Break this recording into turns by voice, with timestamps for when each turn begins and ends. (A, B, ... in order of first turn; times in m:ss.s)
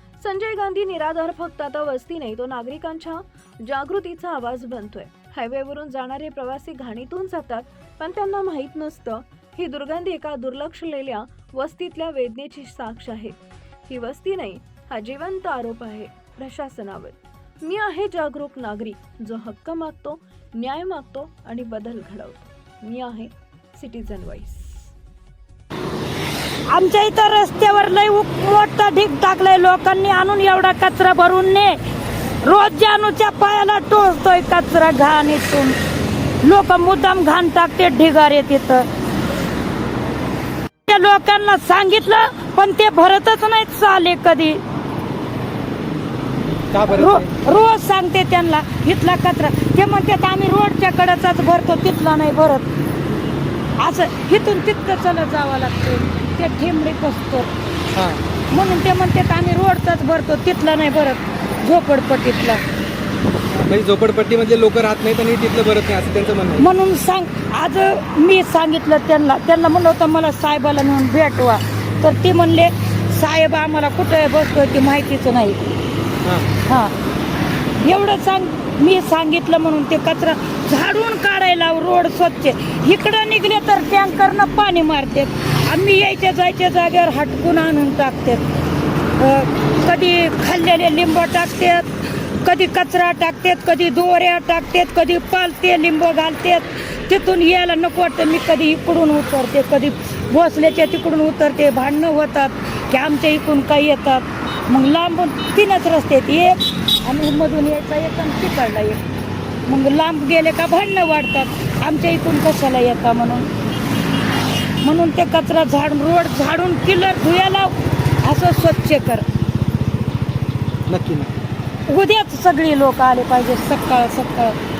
0:00.2-0:24.9 A
0:26.7-0:31.8 B
0:32.4-0:35.8 B
0:36.4-0:38.9 B
0:40.9-0:44.6 B
0:46.7-0:47.3 C
0:46.9-0:52.7 B
0:53.8-0:57.5 B
0:57.9-0:58.2 C
0:58.5-1:02.6 B
1:03.6-1:06.7 C
1:06.6-1:15.6 B
1:16.2-1:16.5 C
1:16.7-1:16.9 B
1:17.8-1:28.5 B
1:29.2-1:49.0 B
1:49.6-1:53.5 B
1:54.8-1:59.2 B
2:00.9-2:01.4 C
2:01.9-2:04.6 B